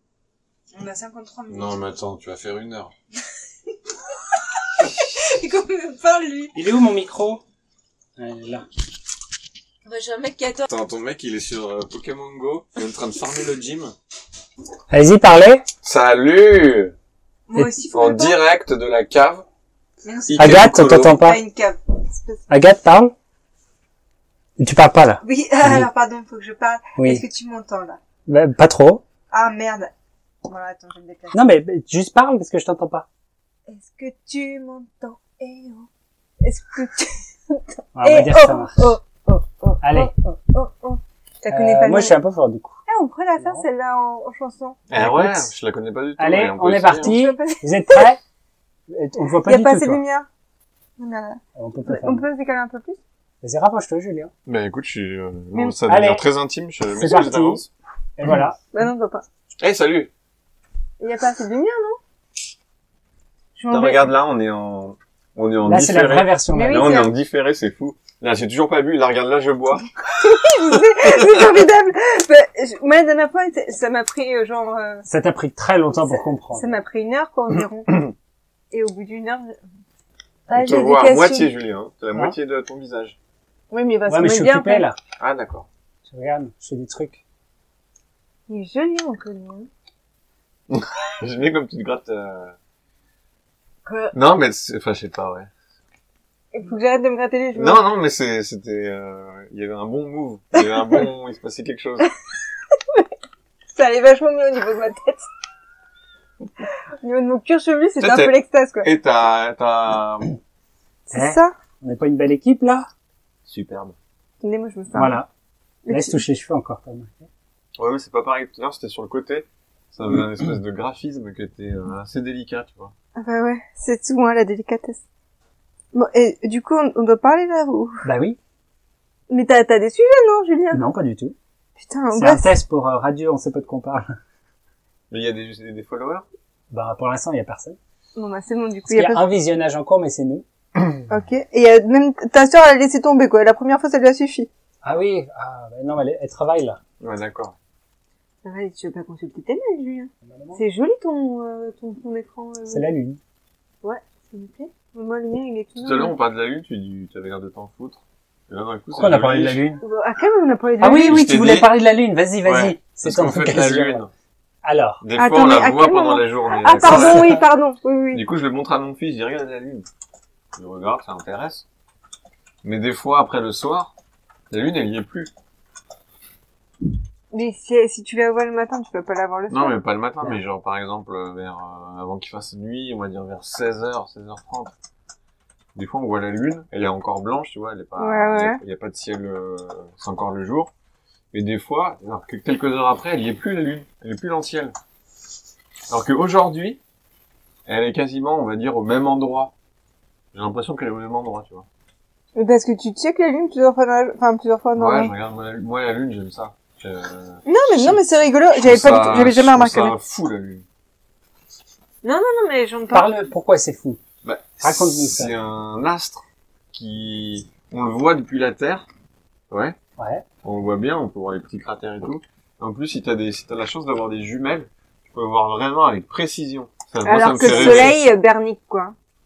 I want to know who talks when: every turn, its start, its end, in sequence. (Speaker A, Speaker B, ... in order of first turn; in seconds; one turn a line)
Speaker A: 0.7-1.8
Speaker B: 1.5-2.9
Speaker A: 5.0-6.5
Speaker C: 6.5-7.4
Speaker C: 8.2-8.6
Speaker A: 9.8-10.7
Speaker B: 10.6-13.9
Speaker C: 14.9-15.7
Speaker B: 15.8-16.9
Speaker A: 17.5-18.4
Speaker B: 17.9-19.4
Speaker A: 20.0-22.4
Speaker B: 20.3-21.2
Speaker C: 20.4-21.4
Speaker C: 22.5-23.1
Speaker C: 24.6-25.9
Speaker A: 25.2-28.0
Speaker C: 26.9-27.2
Speaker C: 28.3-29.0
Speaker A: 29.3-29.9
Speaker A: 30.4-31.4
Speaker C: 31.3-33.0
Speaker A: 33.7-35.9
Speaker A: 36.4-42.2
Speaker C: 37.9-39.0
Speaker C: 39.8-40.1
Speaker C: 41.5-42.8
Speaker A: 42.9-44.8
Speaker C: 43.4-43.6
Speaker B: 44.9-47.2
Speaker C: 44.9-45.5
Speaker C: 46.2-48.2
Speaker A: 47.0-48.0
Speaker C: 48.9-50.0
Speaker A: 49.4-50.3
Speaker A: 51.0-53.0
Speaker C: 51.5-52.2
Speaker C: 53.4-54.3
Speaker B: 54.5-57.7
Speaker C: 55.9-56.2
Speaker C: 56.9-57.6
Speaker C: 58.2-58.6
Speaker A: 58.7-59.2
Speaker B: 59.6-60.1
Speaker A: 61.0-62.0
Speaker A: 63.5-64.1
Speaker B: 63.7-69.9
Speaker C: 65.6-66.9
Speaker A: 66.5-67.1
Speaker A: 70.1-75.0
Speaker B: 71.0-71.5
Speaker C: 75.1-76.7
Speaker A: 76.5-77.9
Speaker A: 78.7-79.6
Speaker A: 80.5-81.5
Speaker B: 80.5-83.2
Speaker A: 83.7-84.8
Speaker C: 84.1-85.0
Speaker B: 85.2-85.7
Speaker C: 86.0-87.2
Speaker A: 88.5-89.7
Speaker B: 90.7-92.5
Speaker A: 93.8-94.1
Speaker B: 94.1-95.5
Speaker A: 96.5-97.8
Speaker B: 97.5-102.1
Speaker A: 103.7-105.2
Speaker A: 107.0-108.9
Speaker B: 108.0-110.3
Speaker A: 111.1-111.5
Speaker C: 111.1-112.9
Speaker B: 113.5-114.0
Speaker A: 114.4-115.2
Speaker C: 114.9-115.3
Speaker A: 115.8-116.2
Speaker C: 115.9-117.3
Speaker B: 117.8-122.9
Speaker A: 123.2-125.0
Speaker A: 125.9-128.0
Speaker C: 128.0-128.4
Speaker A: 129.3-130.8
Speaker C: 130.7-131.3
Speaker A: 131.8-132.4
Speaker C: 132.1-134.2
Speaker B: 135.1-136.2
Speaker C: 136.7-137.8
Speaker A: 138.2-139.2
Speaker C: 138.9-140.4
Speaker A: 141.1-144.5
Speaker C: 144.8-146.8
Speaker B: 147.0-147.5
Speaker A: 148.4-152.8
Speaker C: 150.2-150.6
Speaker C: 152.7-153.2
Speaker A: 153.8-156.1
Speaker B: 155.8-159.6
Speaker C: 158.9-159.8
Speaker A: 159.8-161.2
Speaker C: 160.8-164.0
Speaker B: 161.0-161.7
Speaker B: 162.4-164.1
Speaker C: 164.6-165.0
Speaker B: 165.0-167.3
Speaker A: 165.2-168.2
Speaker C: 166.8-167.4
Speaker B: 168.1-169.8
Speaker B: 170.6-171.6
Speaker B: 172.6-173.9
Speaker B: 174.5-175.3
Speaker A: 177.3-179.8
Speaker B: 179.5-184.7
Speaker B: 185.7-190.7
Speaker A: 188.0-188.6
Speaker B: 191.3-194.7
Speaker B: 195.9-196.8
Speaker B: 197.7-199.5
Speaker B: 200.3-201.7
Speaker A: 202.3-205.1
Speaker B: 204.8-208.0
Speaker A: 207.4-209.9
Speaker B: 208.6-210.6
Speaker A: 212.0-213.1
Speaker C: 212.9-214.0
Speaker B: 214.2-218.8
Speaker C: 214.6-215.3
Speaker B: 219.5-219.8
Speaker C: 220.0-220.2
Speaker B: 220.4-227.9
Speaker A: 227.0-228.9
Speaker C: 227.4-228.0